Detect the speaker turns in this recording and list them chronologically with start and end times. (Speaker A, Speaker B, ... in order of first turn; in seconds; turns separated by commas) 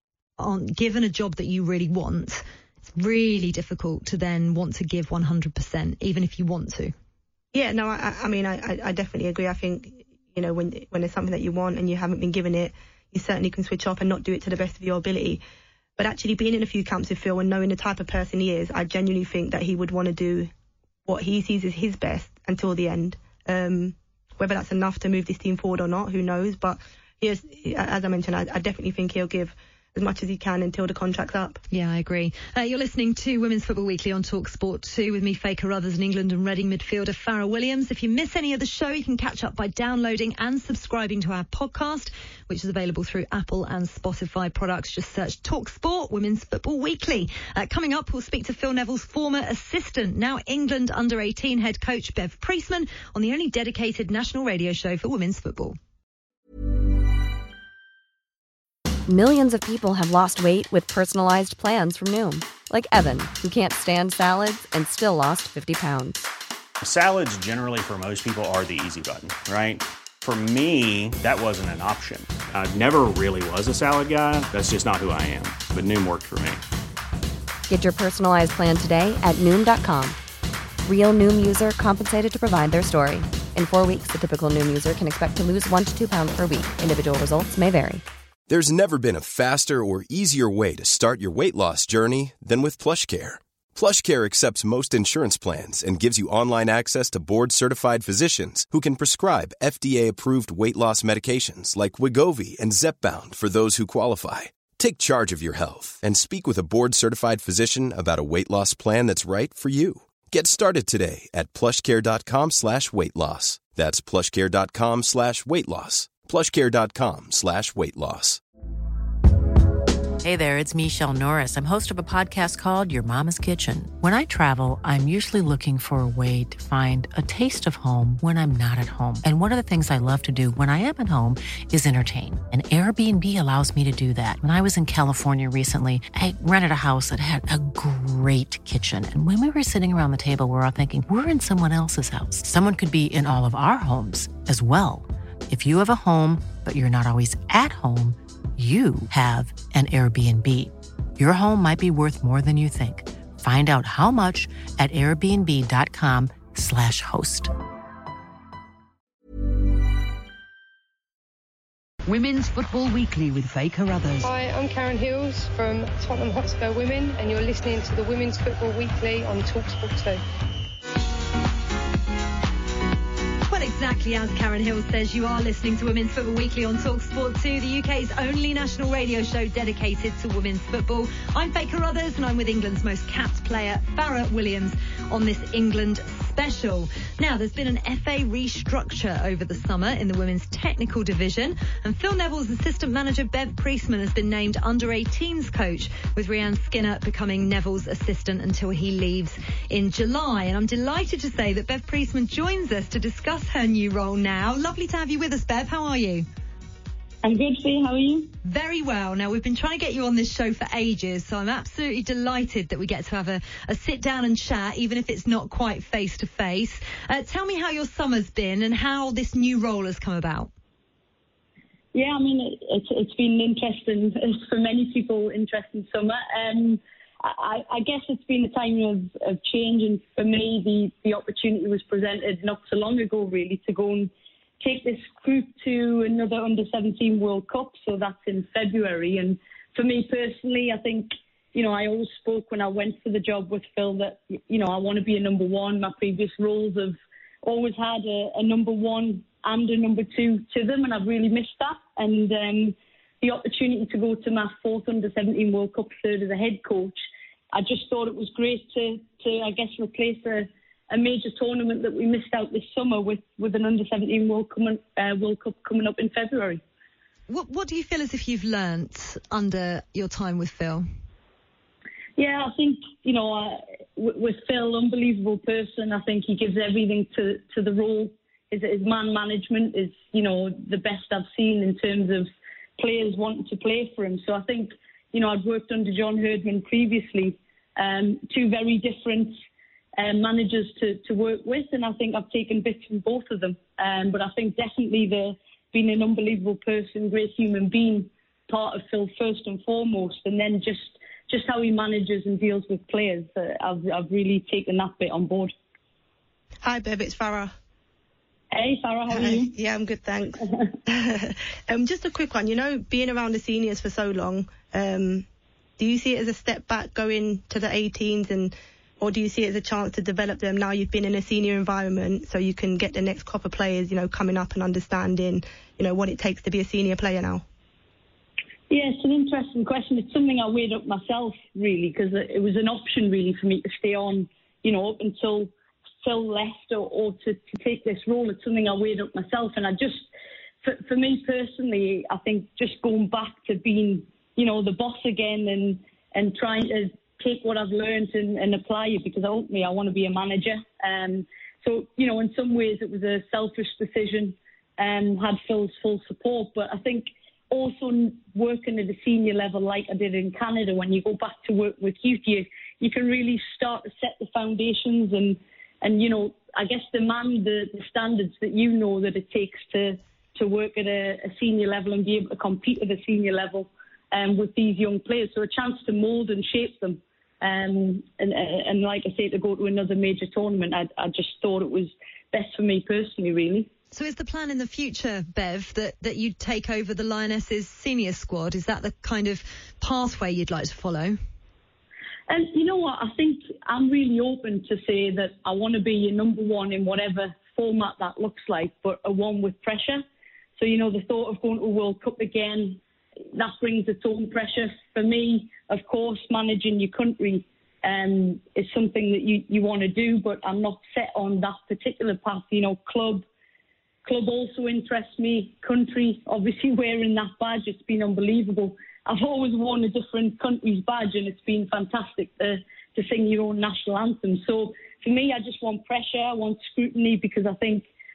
Speaker A: 0.4-6.9, Speaker B: 7.5-15.4, Speaker B: 16.0-20.5, Speaker B: 21.1-31.6, Speaker A: 31.7-55.8, Speaker C: 59.1-66.3, Speaker D: 66.8-76.6, Speaker C: 77.7-80.2, Speaker C: 80.9-88.0, Speaker E: 88.5-118.4, Speaker F: 120.2-157.5, Speaker G: 162.1-164.3, Speaker H: 164.2-170.2, Speaker A: 173.5-206.2, Speaker I: 207.2-208.3, Speaker A: 208.4-220.5, Speaker I: 221.9-234.1, Speaker I: 234.6-257.0, Speaker I: 257.5-266.6, Speaker A: 267.3-270.9, Speaker I: 272.2-289.4, Speaker I: 290.0-305.5, Speaker B: 306.6-307.5, Speaker I: 308.5-309.5, Speaker B: 309.1-315.3, Speaker B: 315.8-327.4, Speaker I: 328.7-335.5, Speaker I: 336.0-340.1, Speaker I: 340.6-383.7, Speaker A: 383.9-391.2, Speaker I: 392.3-400.0, Speaker I: 400.6-402.8, Speaker I: 403.3-413.2, Speaker I: 414.1-427.9